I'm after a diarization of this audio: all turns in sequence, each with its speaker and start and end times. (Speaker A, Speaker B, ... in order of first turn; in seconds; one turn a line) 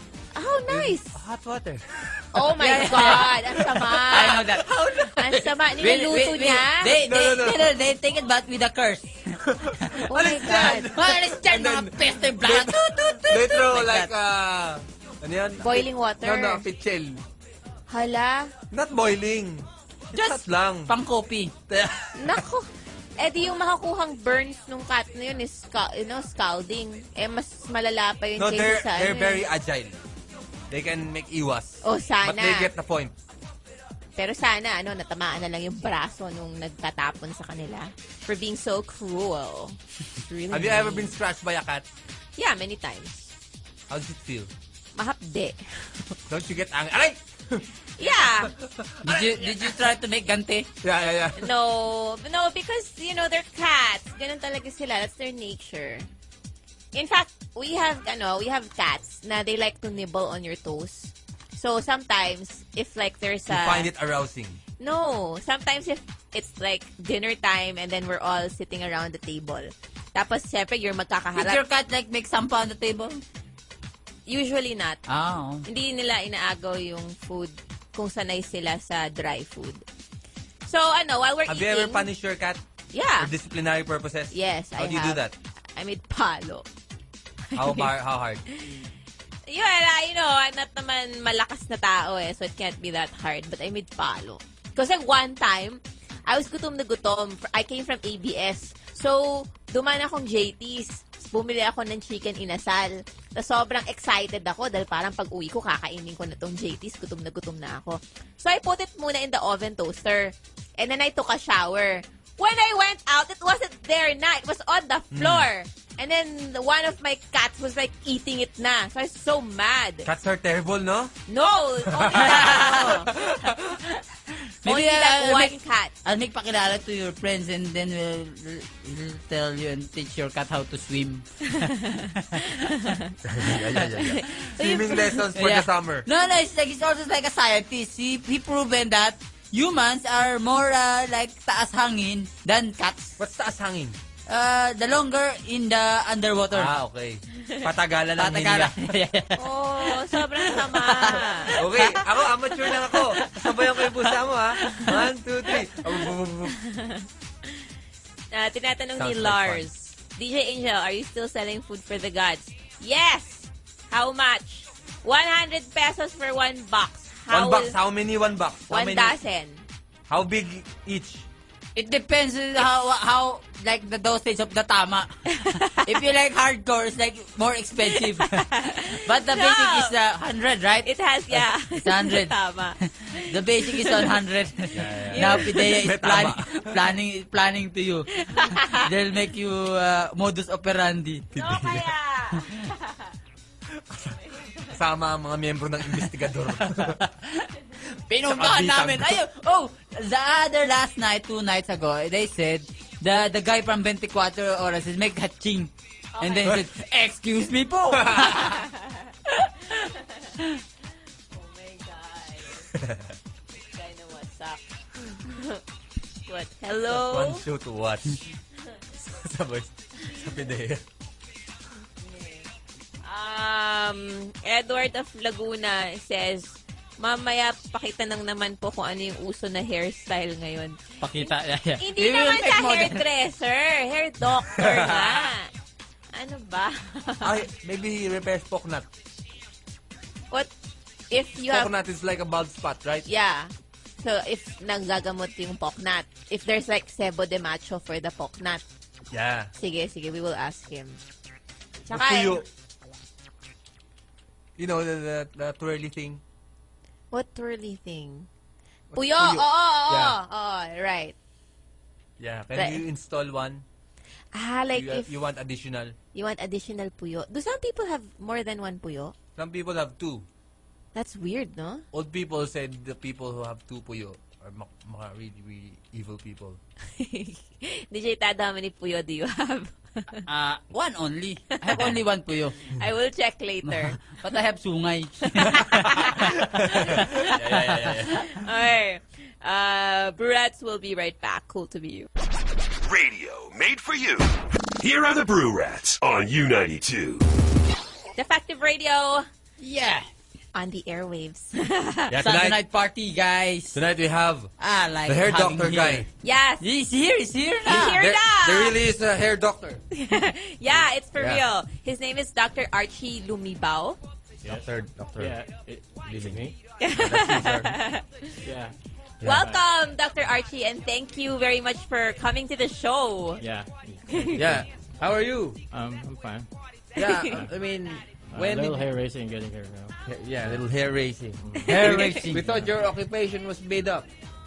Speaker A: 0.3-1.2
Speaker B: 0.7-4.7
Speaker A: 2.3-4.5
Speaker C: 2.6-10.0
Speaker A: 5.2-6.9
Speaker B: 6.9-7.7
Speaker B: 9.4-17.2
Speaker A: 10.1-10.9
Speaker C: 10.5-14.1
Speaker A: 15.6-16.6
Speaker A: 17.9-18.5
Speaker B: 18.7-20.9
Speaker C: 20.1-21.5
Speaker B: 21.7-22.4
Speaker A: 22.1-22.7
Speaker A: 23.2-29.4
Speaker B: 28.4-30.0
Speaker B: 30.7-33.1
Speaker A: 31.8-32.7
Speaker A: 34.2-41.1
Speaker B: 40.5-41.9
Speaker A: 42.4-43.3
Speaker B: 43.9-44.5
Speaker A: 44.9-46.1
Speaker B: 46.3-49.8
Speaker A: 48.0-48.5
Speaker C: 49.0-50.7
Speaker B: 50.8-51.5
Speaker A: 51.4-56.1
Speaker A: 56.9-63.9
Speaker B: 63.5-64.6
Speaker A: 64.8-71.6
Speaker C: 71.3-73.2
Speaker A: 74.2-75.0
Speaker C: 75.1-75.6
Speaker A: 75.6-79.8
Speaker A: 80.7-82.1
Speaker B: 81.5-82.6
Speaker A: 82.9-83.3
Speaker B: 83.2-85.3
Speaker A: 84.3-85.2
Speaker A: 85.8-86.7
Speaker A: 87.5-87.9
Speaker B: 87.5-88.4
Speaker A: 88.5-88.8
Speaker A: 89.5-120.1
Speaker B: 115.1-115.5
Speaker B: 120.0-121.1
Speaker A: 121.3-123.1
Speaker B: 121.9-123.8
Speaker C: 122.2-122.8
Speaker C: 124.6-132.7
Speaker A: 124.6-125.9
Speaker A: 131.5-133.1
Speaker B: 133.2-136.1
Speaker A: 133.9-135.2
Speaker C: 135.3-143.2
Speaker B: 143.2-144.0
Speaker C: 144.3-146.7
Speaker B: 146.5-148.9
Speaker C: 148.2-152.0
Speaker A: 149.3-151.5
Speaker B: 151.6-156.5
Speaker C: 152.6-154.1
Speaker C: 154.6-155.0
Speaker A: 156.5-157.1
Speaker A: 158.3-167.8
Speaker B: 159.0-159.7
Speaker B: 167.3-169.2
Speaker A: 168.7-169.7
Speaker B: 170.1-171.2
Speaker C: 171.8-191.3
Speaker A: 175.3-176.0
Speaker A: 177.9-179.9
Speaker A: 180.8-184.1
Speaker B: 184.7-186.9
Speaker A: 185.1-185.7
Speaker A: 188.2-188.9
Speaker B: 191.3-192.4
Speaker A: 191.3-193.1
Speaker B: 193.7-197.0
Speaker A: 194.3-194.7
Speaker C: 196.7-197.5
Speaker C: 198.1-208.6
Speaker B: 198.2-199.1
Speaker A: 206.1-206.6
Speaker B: 208.0-208.3
Speaker A: 208.3-210.3
Speaker A: 211.3-212.7
Speaker B: 212.7-213.1
Speaker A: 213.6-215.6
Speaker A: 216.3-217.4
Speaker B: 216.9-218.3
Speaker B: 219.0-220.8
Speaker A: 222.0-222.4
Speaker A: 223.0-235.5
Speaker C: 231.0-233.0
Speaker B: 234.5-235.3
Speaker A: 236.1-237.4
Speaker B: 237.2-238.9
Speaker A: 241.1-241.7
Speaker B: 241.5-243.1
Speaker A: 243.1-248.6
Speaker B: 249.1-249.5
Speaker A: 249.6-251.0
Speaker A: 251.9-252.4
Speaker B: 251.9-252.4
Speaker B: 254.6-256.2
Speaker A: 257.1-258.3
Speaker B: 258.9-260.2
Speaker A: 258.9-261.1
Speaker B: 262.2-263.6
Speaker A: 262.5-262.8
Speaker A: 264.3-265.1
Speaker B: 264.7-265.9
Speaker A: 266.1-269.1
Speaker B: 269.4-270.2
Speaker A: 270.9-271.8
Speaker B: 271.9-276.6
Speaker A: 277.0-280.2
Speaker C: 280.3-282.6
Speaker A: 281.6-281.9
Speaker A: 282.7-284.0
Speaker C: 283.6-287.9
Speaker A: 285.4-286.3
Speaker B: 286.5-288.2
Speaker A: 288.2-292.1
Speaker D: 292.8-297.2
Speaker A: 298.1-299.3
Speaker C: 299.6-300.1
Speaker A: 300.5-302.1
Speaker B: 302.1-302.6
Speaker C: 302.1-303.8
Speaker B: 303.7-304.5
Speaker C: 304.6-306.1
Speaker B: 305.1-306.1
Speaker A: 306.2-306.6
Speaker C: 306.6-308.0
Speaker A: 307.6-308.8
Speaker B: 307.6-309.8
Speaker A: 309.9-314.0
Speaker B: 311.2-311.4
Speaker B: 314.4-315.4
Speaker E: 315.2-316.5
Speaker B: 316.1-316.4
Speaker A: 316.8-318.4
Speaker B: 316.9-317.8
Speaker E: 318.4-319.6
Speaker B: 319.2-319.5
Speaker A: 319.2-323.4
Speaker E: 323.4-324.6
Speaker B: 324.3-325.6
Speaker E: 325.7-326.5
Speaker A: 326.9-327.4
Speaker B: 326.9-328.9
Speaker E: 328.3-329.9
Speaker B: 330.1-334.1
Speaker C: 331.6-332.4